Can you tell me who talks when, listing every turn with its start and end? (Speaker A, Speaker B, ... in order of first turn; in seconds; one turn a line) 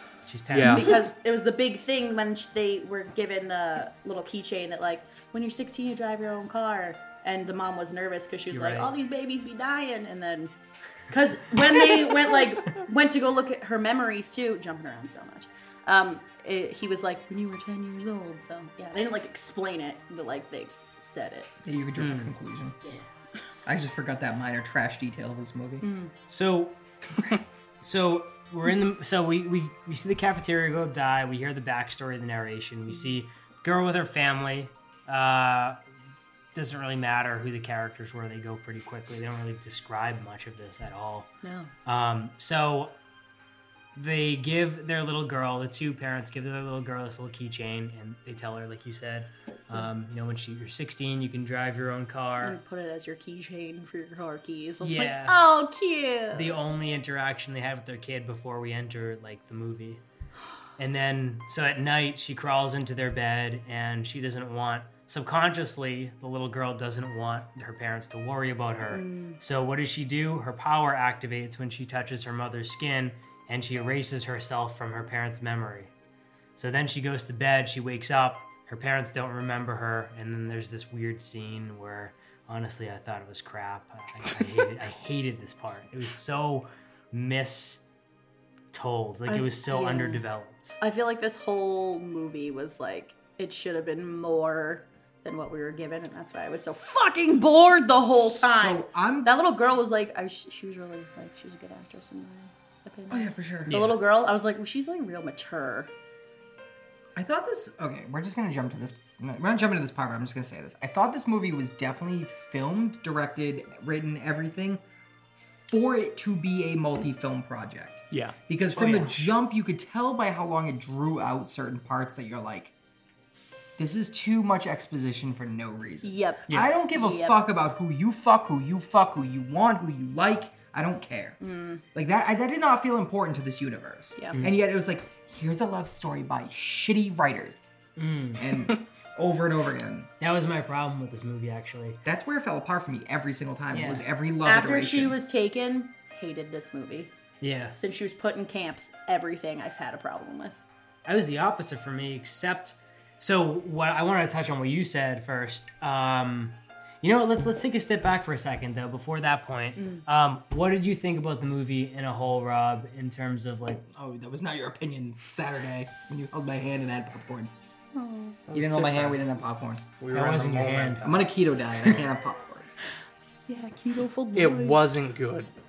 Speaker A: 0.3-0.9
Speaker B: 0.5-1.0
Speaker C: 0.6-10.5
Speaker A: 8.5-8.9
Speaker C: 11.1-21.5
Speaker D: 11.8-12.3
Speaker D: 21.6-22.8
Speaker A: 21.9-22.3
Speaker D: 23.6-25.9
Speaker C: 25.8-26.1
Speaker A: 26.3-26.8
Speaker A: 27.8-35.8
Speaker A: 36.5-41.3
Speaker C: 41.4-41.7
Speaker A: 41.9-42.9
Speaker A: 43.9-52.6
Speaker C: 52.4-56.6
Speaker A: 54.8-55.4
Speaker A: 56.3-60.0
Speaker A: 60.8-75.9
Speaker C: 68.9-69.4
Speaker A: 76.5-87.8
Speaker A: 88.7-90.8
Speaker C: 89.3-90.2
Speaker C: 90.8-105.9
Speaker D: 98.0-99.3
Speaker D: 103.1-103.8
Speaker A: 103.7-104.0
Speaker D: 107.2-114.8
Speaker D: 115.4-122.7
Speaker B: 118.1-118.4
Speaker A: 118.7-119.1
Speaker D: 123.8-131.4
Speaker C: 126.0-127.4
Speaker C: 131.4-131.8
Speaker D: 131.9-137.6
Speaker A: 137.9-138.4
Speaker D: 138.4-140.1
Speaker A: 140.2-142.0
Speaker D: 142.0-145.2
Speaker A: 143.7-144.1
Speaker C: 144.4-147.1
Speaker A: 147.4-147.8
Speaker C: 147.8-150.6
Speaker A: 151.1-163.9
Speaker C: 159.8-160.0
Speaker D: 163.9-167.5
Speaker C: 167.9-168.4
Speaker B: 168.5-169.3
Speaker D: 168.5-169.8
Speaker B: 170.0-171.3
Speaker A: 170.1-171.1
Speaker D: 171.0-172.7
Speaker C: 173.4-174.8
Speaker B: 174.3-175.5